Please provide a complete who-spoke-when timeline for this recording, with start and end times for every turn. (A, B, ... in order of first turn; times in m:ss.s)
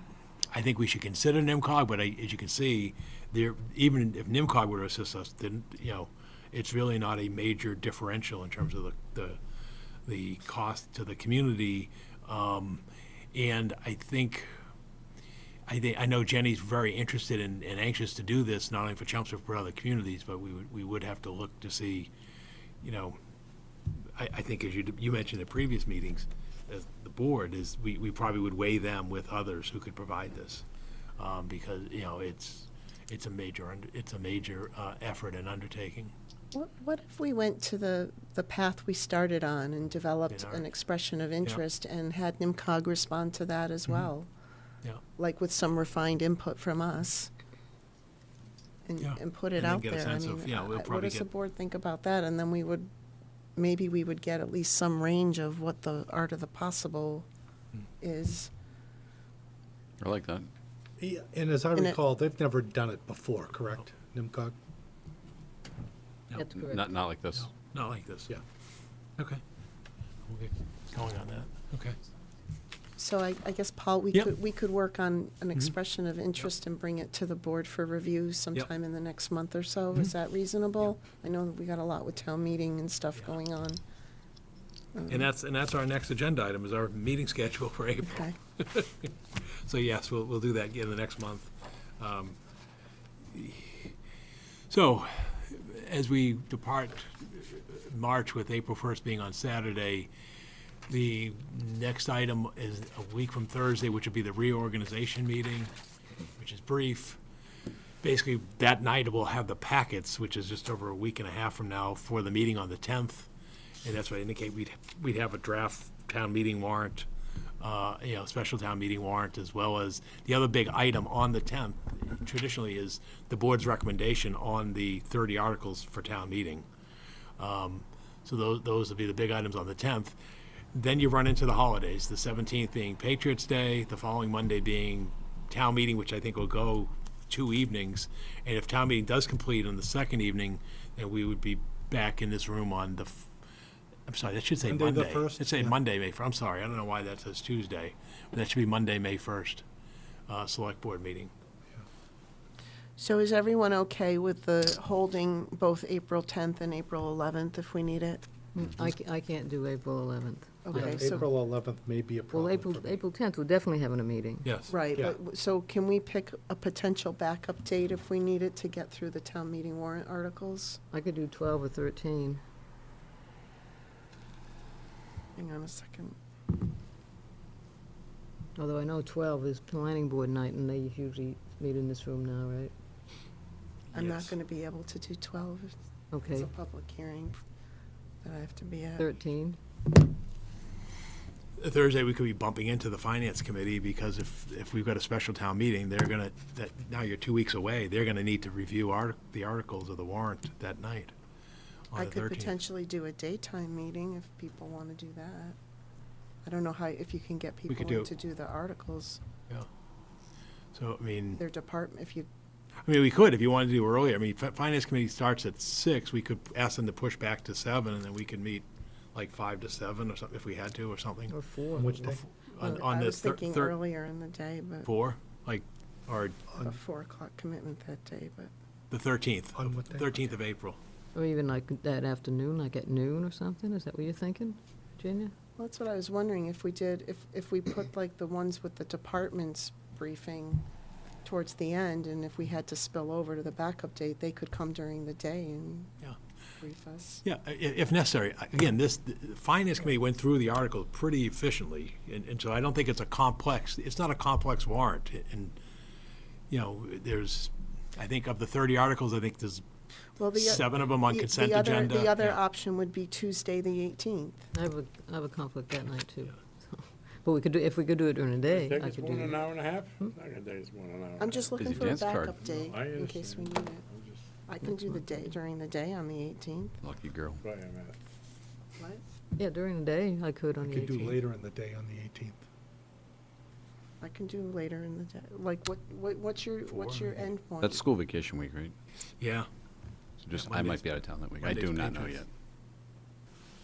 0:00.5-0:09.4 A
0:10.0-0:14.5 A
0:15.7-0:22.1 A
0:22.8-0:23.2 A
0:24.2-0:30.6 A
0:31.2-0:36.1 A
0:36.5-0:44.3 B
0:40.3-0:40.6 A
0:45.2-0:47.3 B
0:48.8-0:52.9 B
0:49.0-0:51.3 A
0:53.6-0:57.2 B
0:58.0-0:58.5 B
1:00.0-1:00.5 C
1:01.0-1:04.6 D
1:06.4-1:06.8 E
1:06.5-1:07.5 C
1:07.3-1:08.4 A
1:10.3-1:12.0 A
1:13.0-1:23.8 B
1:24.9-1:25.2 B
1:25.1-1:32.4 A
1:28.0-1:28.3 B
1:33.3-1:33.9 A
1:34.7-1:40.1 A
1:40.9-1:45.7 A
1:46.4-1:47.2 A
1:48.0-1:53.3 A
1:53.8-1:57.1 A
1:57.6-2:06.6 A
2:07.4-2:10.2 A
2:10.7-2:23.3 A
2:24.1-2:29.6 A
2:24.6-2:25.7 D
2:30.3-2:31.3 A
2:33.0-2:38.2 B
2:38.5-2:41.2 E
2:40.6-2:41.3 B
2:40.7-2:43.0 D
2:42.3-2:44.4 E
2:44.4-2:44.7 A
2:44.7-2:50.8 B
2:50.9-2:52.4 E
2:55.4-2:56.2 B
2:58.6-3:02.7 E
3:03.9-3:04.4 A
3:03.9-3:05.7 B
3:06.1-3:06.5 E
3:06.3-3:07.4 B
3:08.2-3:09.1 B
3:09.0-3:09.6 E
3:11.6-3:21.1 A
3:21.9-3:22.6 A
3:21.9-3:25.6 B
3:26.4-3:29.2 B
3:27.7-3:28.1 A
3:30.7-3:31.4 A
3:31.4-3:32.3 B
3:32.8-3:41.3 A
3:41.3-3:42.7 E
3:41.7-3:42.2 D
3:42.1-3:43.8 A
3:42.6-3:44.9 B
3:44.8-3:46.4 A
3:46.6-3:48.5 B
3:48.9-3:50.8 A
3:49.6-3:50.1 D
3:51.1-3:55.3 E
3:55.6-4:00.6 B
4:01.2-4:05.9 B
4:06.6-4:07.2 B
4:07.2-4:15.5 A
4:16.5-4:19.6 A
4:20.2-4:24.5 B
4:20.3-4:22.4 A
4:24.5-4:30.1 E
4:28.5-4:34.3 F
4:31.2-4:33.8 B
4:31.6-4:32.3 C
4:34.4-4:36.8 B
4:34.6-4:35.3 E
4:36.8-4:37.4 C
4:37.4-4:38.0 F
4:38.8-4:39.0 B
4:39.4-4:41.2 E
4:40.6-4:42.4 D
4:44.0-4:47.8 B
4:46.7-4:47.2 A
4:47.6-4:48.7 C
4:49.2-4:49.5 A
4:50.2-4:52.3 C
4:50.3-4:52.2 A